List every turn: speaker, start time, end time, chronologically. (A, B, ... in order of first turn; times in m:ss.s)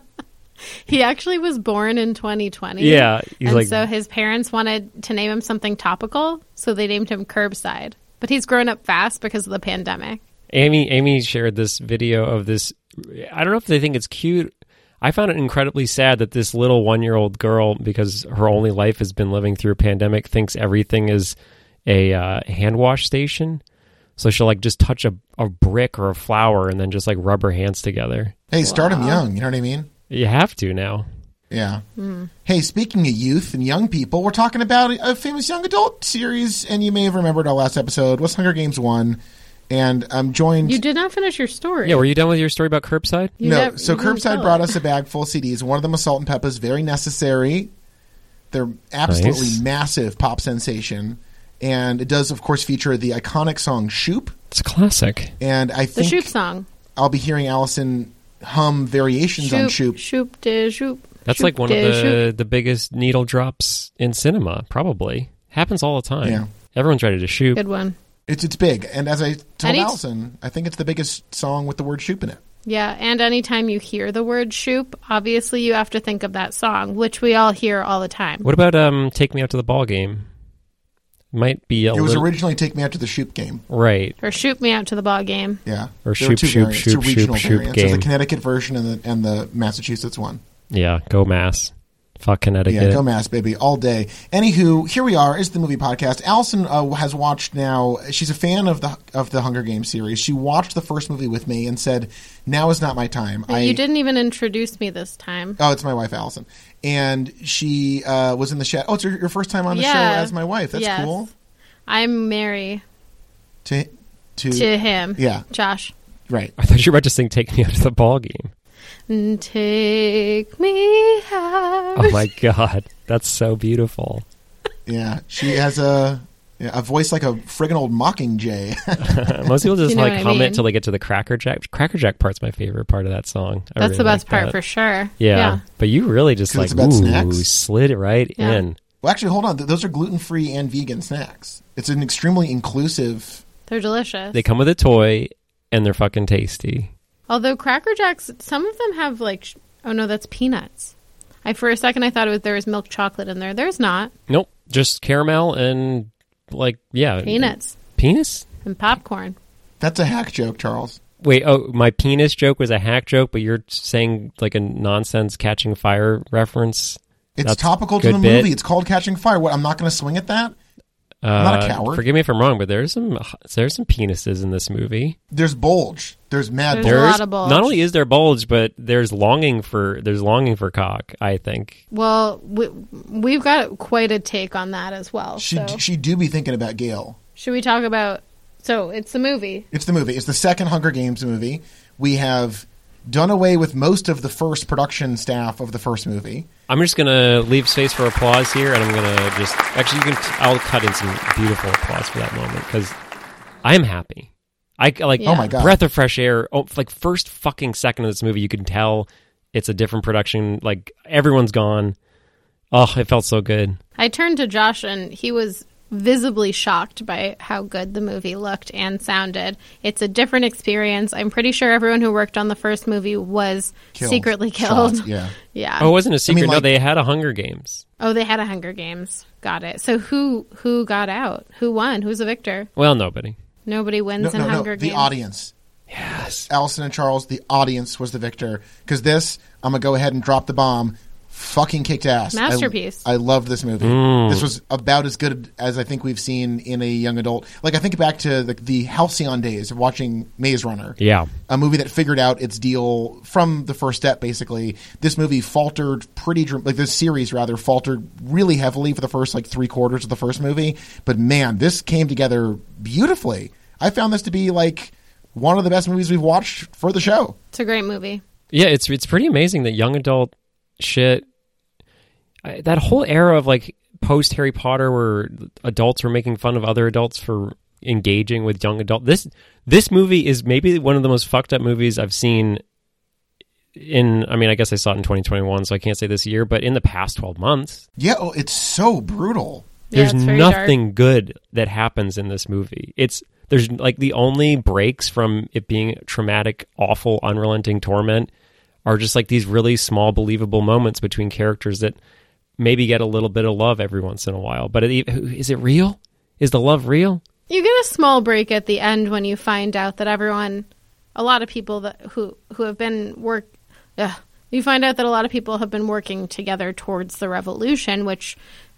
0:00.8-0:10.2 A
0:02.8-0:03.8 B
0:10.5-0:14.5 B
0:15.0-0:21.4 B
0:21.9-0:23.6 B
0:24.2-0:28.3 B
0:28.5-0:29.9 C
0:28.6-0:29.2 A
0:30.1-0:31.0 B
0:31.5-0:31.8 C
0:32.0-0:32.3 A
0:32.4-0:39.2 C
0:39.7-0:40.8 C
0:40.6-0:42.0 A
0:41.8-0:43.3 B
0:43.4-0:44.8 A
0:43.4-0:47.7 C
0:48.5-0:54.3 C
0:49.1-0:49.6 B
0:54.5-0:55.3 B
0:55.4-0:56.3 C
0:56.0-0:56.7 A
0:57.0-1:00.0 C
0:59.4-1:02.2 A
1:01.3-1:07.6 B
1:06.2-1:06.5 C
1:07.6-1:08.0 A
1:08.3-1:12.4 C
1:09.6-1:10.0 A
1:12.7-1:18.5 A
1:18.4-1:20.2 B
1:21.3-1:22.3 B
1:21.9-1:23.6 C
1:23.7-1:24.2 B
1:24.2-1:25.6 A
1:25.7-1:30.4 C
1:26.0-1:28.1 B
1:30.7-1:33.0 B
1:32.7-1:43.8 C
1:43.5-1:45.6 A
1:45.6-1:51.3 C
1:49.7-1:51.3 A
1:51.9-1:52.8 A
1:53.6-1:55.4 C
1:54.5-1:55.9 A
1:56.3-1:56.5 C
1:56.6-1:58.5 B
1:59.1-2:02.2 A
2:02.0-2:04.2 B
2:04.9-2:09.6 C
2:09.0-2:14.6 B
2:09.9-2:10.6 A
2:13.8-2:15.6 A
2:15.2-2:18.8 B
2:16.5-2:17.4 C
2:18.4-2:18.6 A
2:19.0-2:23.4 C
2:23.7-2:24.4 A
2:24.3-2:26.9 B
2:27.3-2:30.9 A
2:31.4-2:34.1 A
2:34.3-2:38.4 B
2:37.2-2:37.8 A
2:38.6-2:39.4 A
2:39.8-2:41.0 C
2:41.2-2:48.5 B
2:47.4-2:50.6 C
2:51.2-2:55.2 B
2:51.4-2:52.0 C
2:55.3-2:57.2 C
2:56.7-2:57.7 A
2:56.8-3:01.8 B
3:01.9-3:05.8 A
3:05.4-3:07.2 C
3:07.4-3:09.7 A
3:09.7-3:16.5 C
3:16.7-3:23.0 B
3:23.6-3:32.0 B
3:25.2-3:25.5 A
3:25.2-3:25.8 C
3:32.7-3:33.8 B
3:34.0-3:45.9 A
3:43.9-3:45.4 C
3:45.8-3:47.8 B
3:46.3-3:46.7 C
3:48.0-3:52.7 A
3:52.8-3:53.4 B
3:53.7-3:55.1 A
3:54.2-3:55.5 C
3:55.9-3:56.5 B
3:56.5-4:27.4 C
4:02.3-4:03.0 A
4:03.8-4:04.5 B
4:11.0-4:11.3 B
4:27.5-4:28.2 A
4:28.5-4:31.2 B
4:32.4-4:42.6 B
4:43.8-4:47.8 B
4:48.0-4:49.7 C
4:49.9-4:50.7 A
4:49.9-4:58.3 B
4:58.9-5:02.0 B
5:02.6-5:07.2 B
5:07.5-5:18.4 A